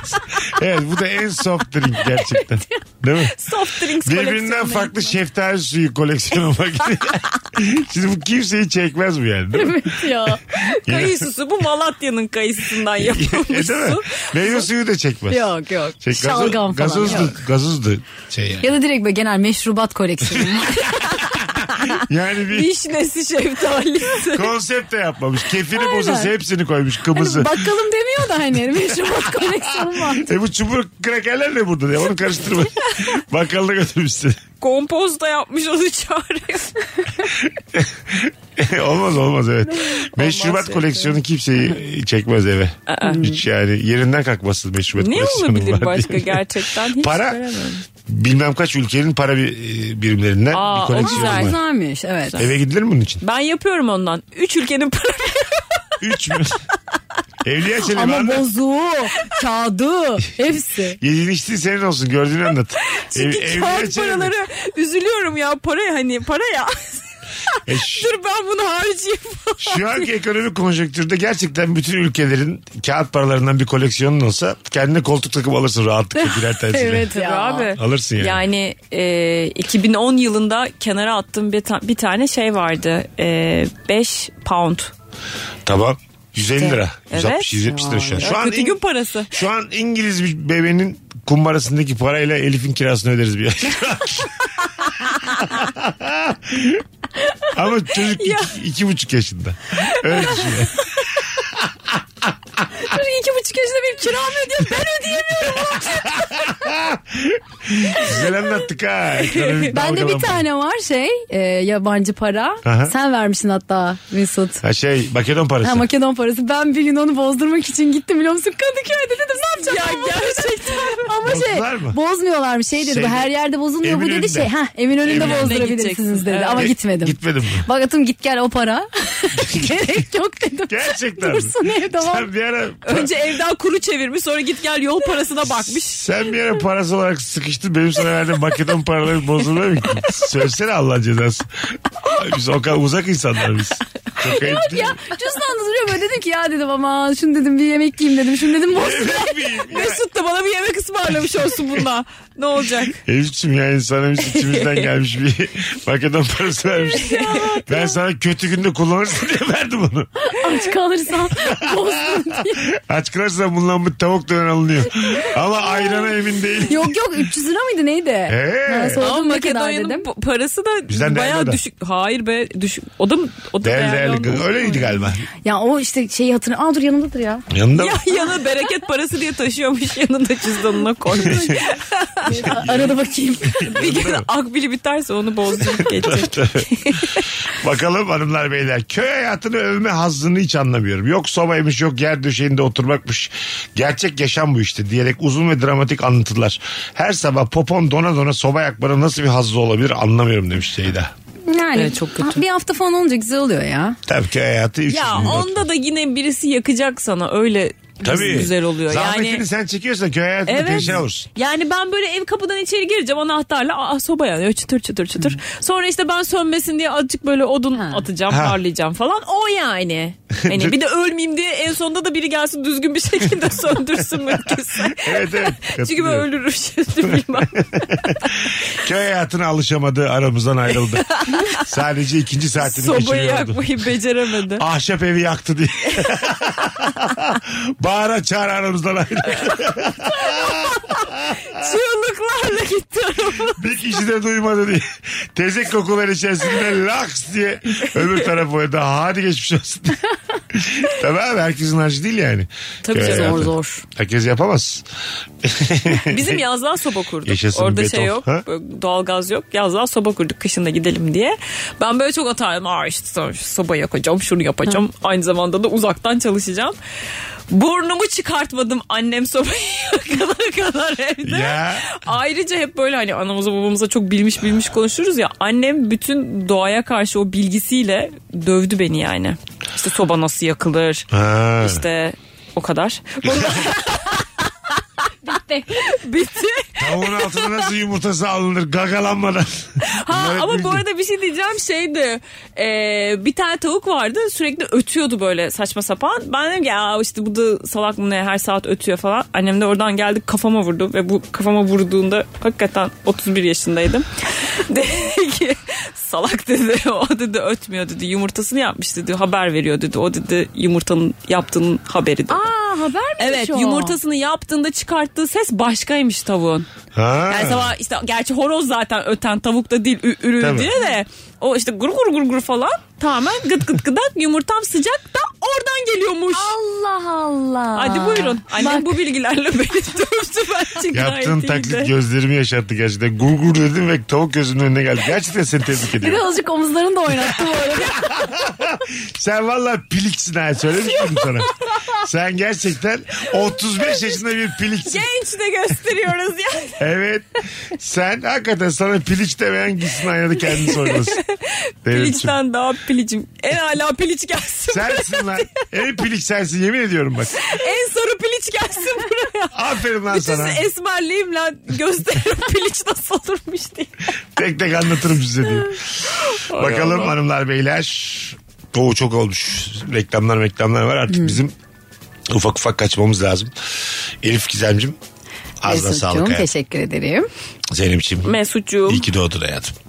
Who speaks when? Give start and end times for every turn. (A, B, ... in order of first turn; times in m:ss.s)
0:00.4-0:11.3 A
0:03.3-0:05.2 B
0:09.5-0:10.4 C
0:10.5-0:14.6 B
0:12.7-0:18.7 A
0:15.3-0:17.4 C
0:18.6-0:21.3 C
0:20.3-0:22.7 A
0:22.5-0:24.5 B
0:24.2-0:27.8 A
0:25.7-0:26.3 C
0:27.1-0:30.4 C
0:28.5-0:34.4 A
0:34.6-0:36.7 B
0:37.2-0:47.4 A
0:39.8-0:41.2 B
0:42.9-0:43.2 B
0:43.0-0:43.4 C
0:44.9-0:47.8 B
0:48.0-0:51.6 A
0:50.5-0:51.6 B
0:51.0-0:52.4 C
0:52.4-0:53.2 A
0:53.2-0:56.4 B
0:56.0-0:56.6 A
0:57.4-0:58.4 A
0:57.8-1:01.0 C
1:01.0-1:04.3 A
1:02.9-1:10.1 B
1:07.6-1:08.1 A
1:09.6-1:17.1 A
1:16.2-1:17.7 C
1:17.1-1:24.9 B
1:17.7-1:18.4 A
1:25.6-1:34.5 A
1:26.6-1:29.3 B
1:27.6-1:28.3 C
1:35.4-1:36.8 A
1:37.5-1:40.9 A
1:38.2-1:38.5 B
1:39.9-1:40.5 B
1:42.7-1:46.4 C
1:45.3-1:50.4 A
1:49.3-1:49.7 B
1:49.7-1:54.6 C
1:52.6-1:52.9 A
1:54.6-1:55.9 A
1:55.6-2:12.3 C
1:59.6-2:01.0 B
2:01.2-2:02.0 A
2:02.8-2:05.6 A
2:05.1-2:06.7 B
2:06.6-2:07.7 A
2:09.3-2:10.0 A
2:10.7-2:13.1 A
2:12.8-2:16.0 B
2:15.4-2:21.5 A
2:22.0-2:25.0 A
2:24.3-2:29.4 C
2:28.7-2:30.0 A
2:29.7-2:33.0 B
2:33.0-2:40.1 A
2:34.3-2:34.9 B
2:36.9-2:37.9 C
2:37.0-2:37.6 B
2:40.2-2:42.6 C
2:41.3-2:47.2 A
2:45.0-2:46.1 C
2:46.7-2:50.1 C
2:48.3-2:49.0 A
2:49.0-2:55.0 B
2:50.9-2:51.6 A
2:53.6-2:55.3 A
2:55.4-2:57.4 C
2:57.5-2:58.0 A
2:57.8-3:02.6 B
3:01.1-3:01.6 C
3:01.2-3:01.6 A
3:02.2-3:03.7 C
3:02.3-3:04.3 A
3:03.6-3:07.2 B
3:05.6-3:21.1 A
3:21.5-3:24.0 C
3:21.7-3:22.4 B
3:24.0-3:25.6 A
3:24.9-3:29.4 B
3:28.0-3:31.3 A
3:30.4-3:48.5 B
3:37.8-3:38.0 C
3:38.3-3:38.6 A
3:40.4-3:40.7 A
3:44.5-3:46.3 A
3:47.0-3:53.7 A
3:51.0-3:51.6 B
3:52.6-3:54.6 B
3:54.6-4:01.4 A
3:59.3-3:59.6 B
4:00.1-4:03.6 B
4:03.6-4:10.0 A
4:10.5-4:14.8 A
4:12.8-4:13.6 B
4:12.9-4:13.8 C
4:15.4-4:16.4 A
4:15.9-4:26.7 B
4:17.2-4:18.4 A
4:27.5-4:44.2 B
4:31.2-4:32.0 A
4:41.1-4:41.8 A
4:43.2-4:43.7 A
4:45.2-4:46.0 C
4:45.8-4:47.6 B
4:46.8-4:50.8 A
4:49.8-5:12.4 B
5:12.3-5:14.0 C
5:13.2-5:16.7 B
5:16.9-5:17.7 A
5:17.3-5:26.5 B
5:20.4-5:20.7 A
5:26.3-5:29.0 C
5:27.7-5:31.9 B
5:30.9-5:36.2 A
5:36.0-5:38.1 C
5:37.2-5:45.1 A
5:44.8-5:46.8 B
5:46.8-5:51.2 A
5:50.5-5:55.5 B
5:51.8-5:52.4 A
5:54.7-5:57.4 A
5:57.4-6:03.9 B
5:59.5-6:00.7 A
6:04.4-6:05.8 A
6:06.3-6:07.1 B
6:06.5-6:11.5 A
6:12.3-6:13.5 A
6:14.2-6:15.0 A
6:15.6-6:16.5 A
6:15.7-6:17.3 C
6:17.7-6:18.4 A
6:18.2-6:19.1 B
6:18.9-6:19.8 A